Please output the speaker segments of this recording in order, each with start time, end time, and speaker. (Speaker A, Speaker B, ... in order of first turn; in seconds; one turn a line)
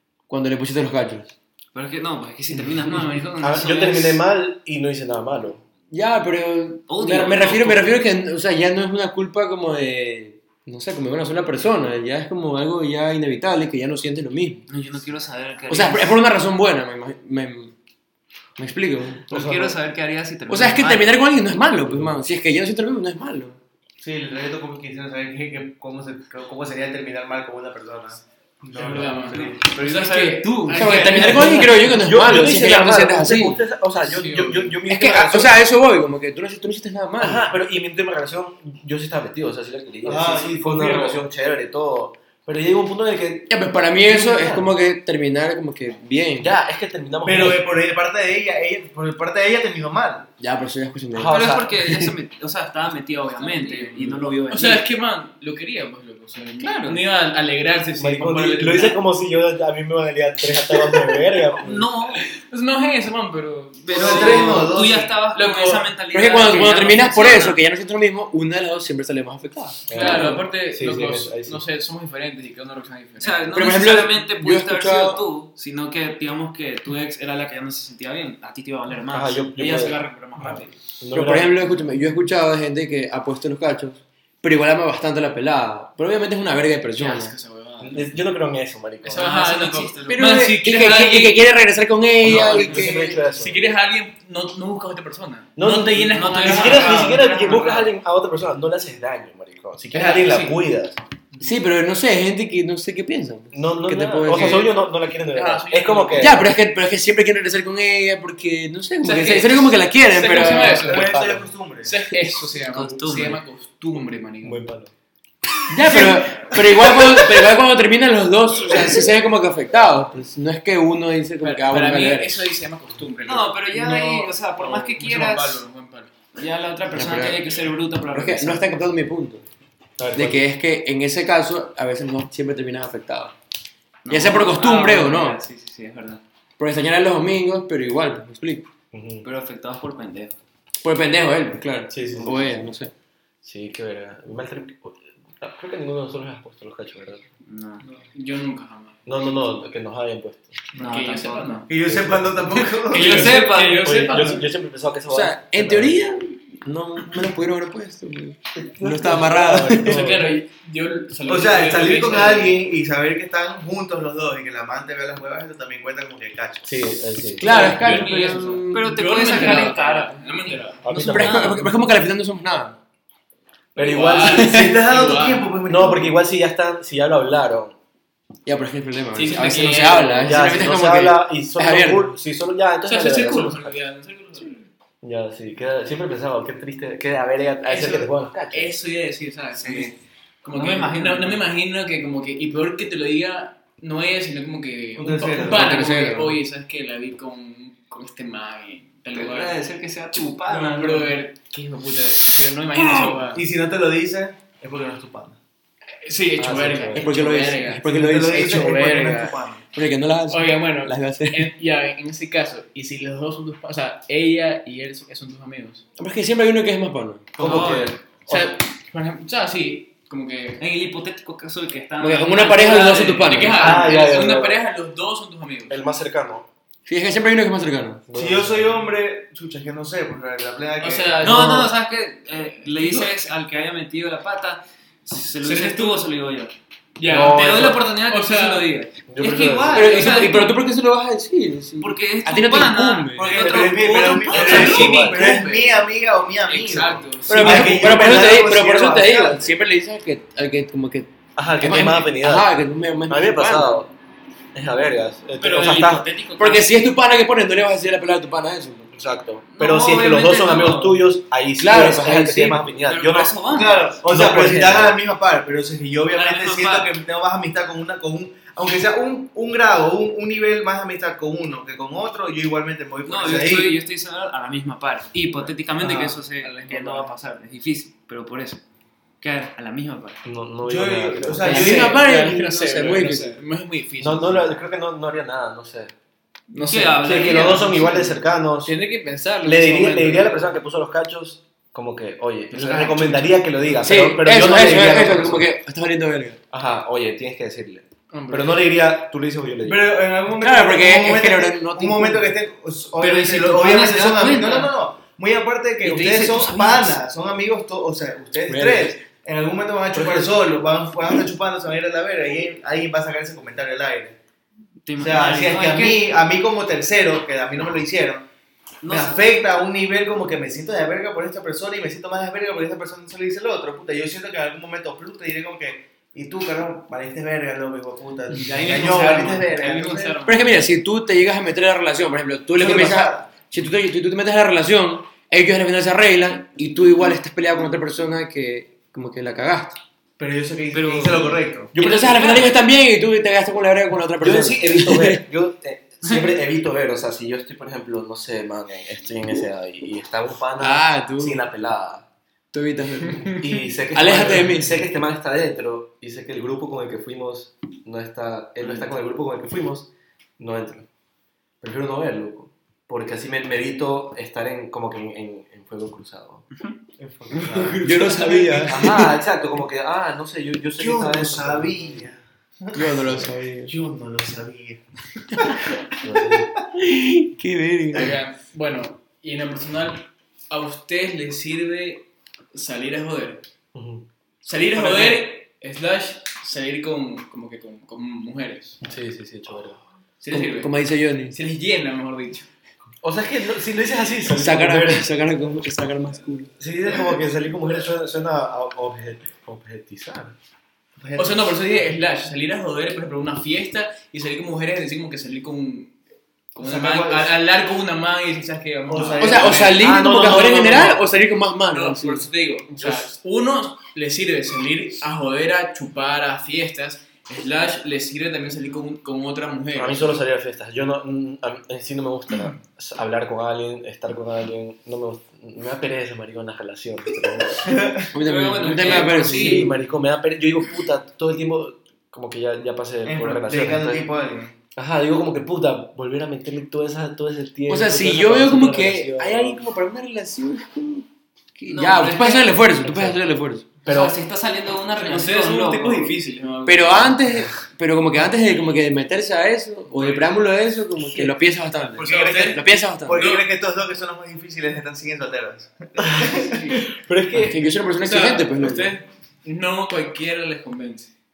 Speaker A: 0.3-1.3
Speaker B: 1.7-4.2
Speaker C: 3.4-5.6
Speaker A: 5.9-14.6
Speaker B: 6.9-8.0
Speaker B: 14.7-16.2
Speaker A: 15.7-17.7
Speaker A: 18.6-19.3
Speaker C: 19.3-19.7
Speaker B: 19.3-21.2
Speaker A: 20.5-23.6
Speaker C: 21.8-22.2
Speaker D: 24.0-29.8
Speaker E: 28.7-31.8
Speaker B: 29.3-31.6
Speaker A: 30.7-33.6
Speaker C: 31.2-35.6
Speaker E: 34.0-34.8
Speaker A: 34.9-37.5
Speaker C: 37.2-43.5
Speaker D: 40.0-41.2
Speaker A: 43.5-46.5
Speaker D: 44.0-44.6
Speaker C: 44.3-44.7
Speaker C: 46.4-47.6
Speaker D: 47.2-50.3
Speaker A: 50.4-52.1
Speaker C: 51.1-51.8
Speaker B: 51.3-54.8
Speaker E: 53.3-59.0
Speaker B: 56.6-57.0
Speaker C: 58.0-61.9
Speaker B: 61.6-62.2
Speaker E: 62.2-64.7
Speaker B: 63.8-67.6
Speaker D: 63.9-65.1
Speaker E: 65.3-65.9
Speaker A: 66.1-70.4
Speaker C: 69.9-71.6
Speaker E: 69.9-73.6
Speaker B: 69.9-70.3
Speaker B: 73.2-80.7
Speaker A: 73.5-75.2
Speaker C: 79.1-81.5
Speaker A: 81.1-87.3
Speaker E: 86.9-88.1
Speaker C: 87.8-89.3
Speaker E: 89.0-91.5
Speaker B: 89.1-90.5
Speaker A: 90.1-93.2
Speaker C: 92.2-93.6
Speaker E: 92.2-97.8
Speaker C: 95.5-101.0
Speaker B: 96.1-97.9
Speaker E: 99.9-100.6
Speaker D: 101.3-101.6
Speaker A: 101.4-104.7
Speaker C: 103.5-106.5
Speaker E: 104.3-104.7
Speaker E: 105.3-106.5
Speaker A: 106.1-111.2
Speaker E: 109.0-111.1
Speaker D: 110.3-112.0
Speaker C: 110.9-111.4
Speaker E: 111.8-114.7
Speaker B: 112.6-113.4
Speaker C: 114.4-114.9
Speaker A: 115.7-122.5
Speaker E: 115.9-116.6
Speaker E: 121.4-126.1
Speaker B: 123.2-125.6
Speaker B: 126.3-128.7
Speaker A: 126.9-127.5
Speaker A: 128.1-129.4
Speaker C: 130.0-130.4
Speaker A: 130.1-133.3
Speaker B: 134.0-136.2
Speaker A: 134.1-135.4
Speaker A: 136.6-138.7
Speaker C: 138.9-139.2
Speaker B: 139.2-140.4
Speaker A: 140.8-142.9
Speaker C: 141.9-142.7
Speaker C: 143.4-147.2
Speaker B: 147.4-147.8
Speaker E: 148.1-149.0
Speaker C: 149.1-150.6
Speaker B: 150.7-151.7
Speaker E: 150.8-151.7
Speaker D: 151.7-153.3
Speaker C: 151.8-152.7
Speaker E: 152.8-154.5
Speaker B: 152.9-154.4
Speaker C: 153.8-156.0
Speaker A: 155.1-160.2
Speaker C: 158.6-160.3
Speaker E: 159.7-162.6
Speaker D: 161.2-166.9
Speaker C: 166.6-167.7
Speaker A: 167.4-169.7
Speaker E: 167.4-170.9
Speaker B: 167.4-170.5
Speaker C: 170.8-171.7
Speaker A: 170.9-172.8
Speaker B: 171.1-171.5
Speaker E: 173.7-175.6
Speaker C: 173.8-174.6
Speaker D: 174.2-176.2
Speaker C: 175.7-177.7
Speaker A: 178.4-182.2
Speaker E: 179.1-180.6
Speaker C: 180.2-183.8
Speaker E: 182.8-184.7
Speaker C: 185.0-188.7
Speaker E: 187.7-199.6
Speaker B: 189.5-189.9
Speaker B: 190.5-191.4
Speaker D: 194.9-195.8
Speaker A: 195.4-196.4
Speaker B: 199.1-201.2
Speaker E: 200.4-203.4
Speaker D: 203.3-205.4
Speaker E: 206.0-208.8
Speaker C: 206.4-207.2
Speaker A: 206.9-211.5
Speaker D: 207.8-209.6
Speaker E: 210.3-215.8
Speaker A: 216.0-217.6
Speaker C: 217.4-218.6
Speaker B: 217.4-217.9
Speaker E: 218.2-220.6
Speaker B: 220.6-223.7
Speaker A: 222.0-223.7
Speaker E: 222.8-225.8
Speaker C: 223.6-224.6
Speaker D: 223.6-224.0
Speaker C: 225.7-226.5
Speaker A: 226.8-228.0
Speaker C: 228.1-228.8
Speaker D: 228.1-231.2
Speaker E: 230.8-231.7
Speaker B: 231.2-236.5
Speaker E: 232.6-233.1
Speaker E: 235.4-236.0
Speaker E: 237.0-238.7
Speaker C: 237.1-237.8
Speaker B: 237.1-240.6
Speaker C: 239.1-240.0
Speaker A: 239.7-243.6
Speaker B: 241.8-245.0
Speaker D: 243.2-249.5
Speaker E: 244.1-245.8
Speaker C: 244.4-245.4
Speaker E: 246.4-247.8
Speaker A: 247.2-253.8
Speaker C: 247.8-248.3
Speaker C: 251.3-252.5
Speaker C: 253.1-253.9
Speaker C: 254.5-256.1
Speaker B: 255.4-256.9
Speaker A: 256.4-258.9
Speaker C: 258.9-263.4
Speaker B: 259.5-261.1
Speaker A: 261.6-262.7
Speaker B: 262.8-264.0
Speaker D: 263.5-273.8
Speaker C: 264.0-265.0
Speaker A: 264.1-264.8
Speaker B: 266.1-266.9
Speaker B: 273.0-278.6
Speaker D: 275.8-276.1
Speaker E: 276.4-277.2
Speaker B: 279.2-280.2
Speaker C: 280.2-281.7
Speaker D: 280.6-282.0
Speaker E: 281.4-284.6
Speaker A: 281.4-283.4
Speaker C: 284.0-285.9
Speaker E: 286.5-290.6
Speaker B: 286.6-288.1
Speaker C: 287.0-288.7
Speaker C: 289.4-295.5
Speaker E: 292.5-293.4
Speaker A: 293.8-296.4
Speaker C: 296.5-299.9
Speaker E: 298.1-298.7
Speaker D: 299.6-314.2
Speaker A: 300.4-302.3
Speaker B: 303.0-304.7
Speaker B: 305.8-307.0
Speaker A: 308.5-309.0
Speaker A: 309.9-310.2
Speaker B: 314.8-316.0
Speaker D: 315.0-318.2
Speaker B: 318.8-319.3
Speaker D: 318.9-330.2
Speaker E: 328.3-330.1
Speaker B: 328.6-330.7
Speaker A: 330.2-339.8
Speaker D: 332.5-333.3
Speaker D: 340.2-341.7
Speaker B: 340.7-342.5
Speaker A: 341.7-345.2
Speaker C: 341.8-342.3
Speaker C: 344.2-352.1
Speaker B: 346.0-346.3
Speaker A: 350.6-351.4
Speaker A: 352.5-354.8
Speaker C: 353.2-360.9
Speaker C: 361.6-366.4
Speaker D: 367.0-368.9
Speaker A: 367.4-369.1
Speaker C: 368.7-372.1
Speaker D: 370.8-373.0
Speaker A: 372.7-373.7
Speaker D: 373.6-374.8
Speaker C: 376.0-376.5
Speaker A: 376.8-378.2
Speaker E: 377.9-383.4
Speaker C: 383.7-384.1
Speaker E: 384.4-388.8
Speaker C: 384.8-385.2
Speaker C: 388.8-389.8
Speaker E: 390.2-390.7
Speaker A: 390.3-391.4
Speaker E: 391.3-392.5
Speaker C: 393.0-395.1
Speaker A: 394.3-396.5
Speaker C: 396.6-400.4
Speaker D: 401.0-401.6
Speaker E: 401.1-405.9
Speaker E: 406.5-410.9
Speaker D: 406.6-407.4
Speaker D: 408.9-409.8
Speaker A: 409.2-412.3
Speaker C: 409.6-411.1
Speaker E: 411.6-420.1
Speaker C: 419.7-427.8
Speaker D: 427.6-428.1
Speaker A: 428.1-429.8
Speaker B: 428.1-429.6
Speaker E: 428.7-429.6
Speaker C: 428.9-434.0
Speaker D: 433.0-434.5
Speaker C: 434.7-439.6
Speaker A: 437.7-443.6
Speaker B: 441.7-442.6
Speaker C: 442.8-443.2
Speaker C: 443.8-444.2
Speaker B: 443.9-446.1
Speaker E: 445.0-447.2
Speaker A: 446.6-453.3
Speaker E: 449.9-450.4
Speaker E: 451.1-451.3
Speaker D: 451.9-456.7
Speaker E: 452.0-453.4
Speaker C: 456.1-457.6
Speaker E: 456.3-456.9
Speaker A: 457.3-459.0
Speaker E: 457.9-461.1